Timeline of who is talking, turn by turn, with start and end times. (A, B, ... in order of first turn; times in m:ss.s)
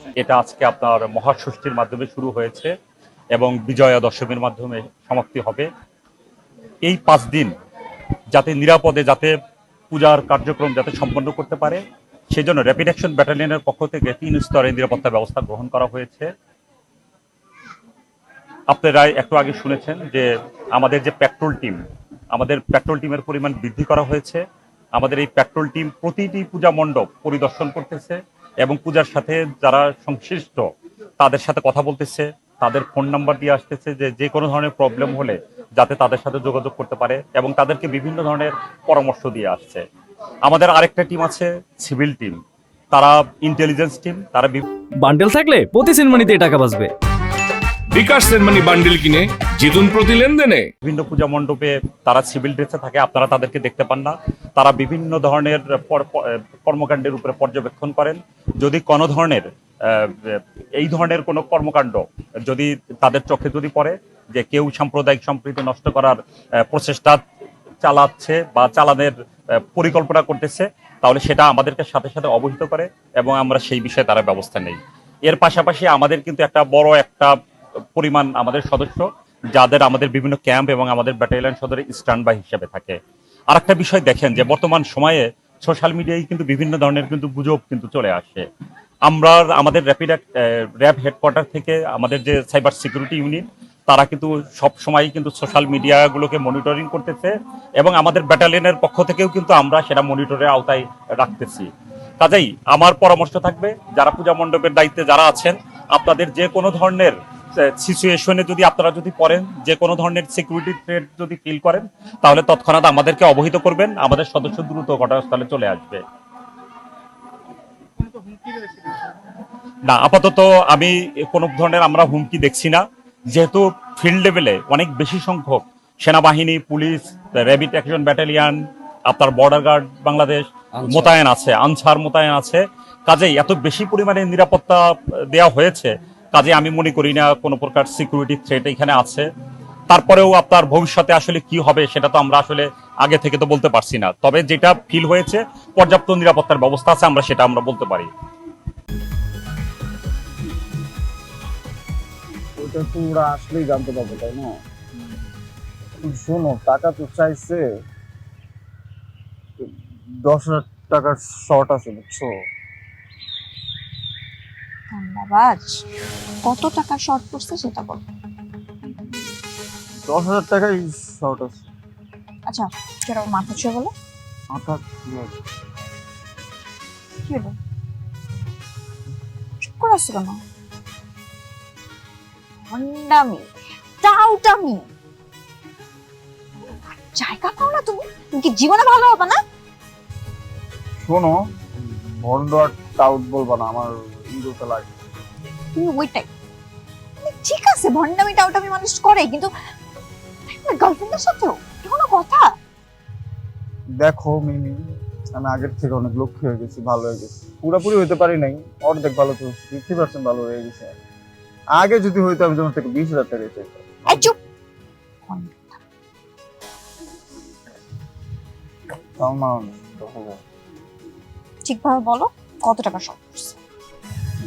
0:00.2-0:02.7 A
0:03.3-0:05.7 A
0:06.8-0:07.5 A
0:08.3-0:09.3 A
0:09.9-0:11.8 A
0:12.3-0:16.3 A
0:18.7-0:21.8 A
0:22.3-0:24.4 A
0:25.0-0:30.6 A
0:31.2-0:39.8 A
0:40.4-0:42.4 A
0:42.9-0:44.6 A
0:45.0-0:46.9 B
0:47.9-0:50.7 C
0:50.8-1:07.2 A
1:07.8-1:17.3 A
1:17.9-1:23.0 A
1:23.5-1:28.4 A
1:29.0-1:56.0 A
1:59.8-2:02.8 A
2:03.3-2:19.3 A
2:19.9-2:28.1 A
2:32.6-2:34.5 D
2:36.0-2:37.6 D
2:40.2-2:42.3 D
2:44.9-2:45.8 E
2:46.4-2:48.0 E
2:50.0-2:51.7 D
2:52.5-2:53.9 E
2:54.5-2:55.4 D
2:57.2-2:57.5 E
2:59.7-3:00.4 E
3:02.6-3:03.5 E
3:04.0-3:04.8 E
3:06.6-3:09.4 E
3:11.0-3:14.9 D
3:15.7-3:16.3 E
3:17.2-3:19.5 E
3:20.5-3:22.4 E
3:24.0-3:24.8 D
3:25.4-3:30.9 D
3:31.8-3:34.3 D
3:34.1-3:34.3 E
3:35.2-3:35.8 E
3:39.2-3:40.4 D
3:41.6-3:43.6 E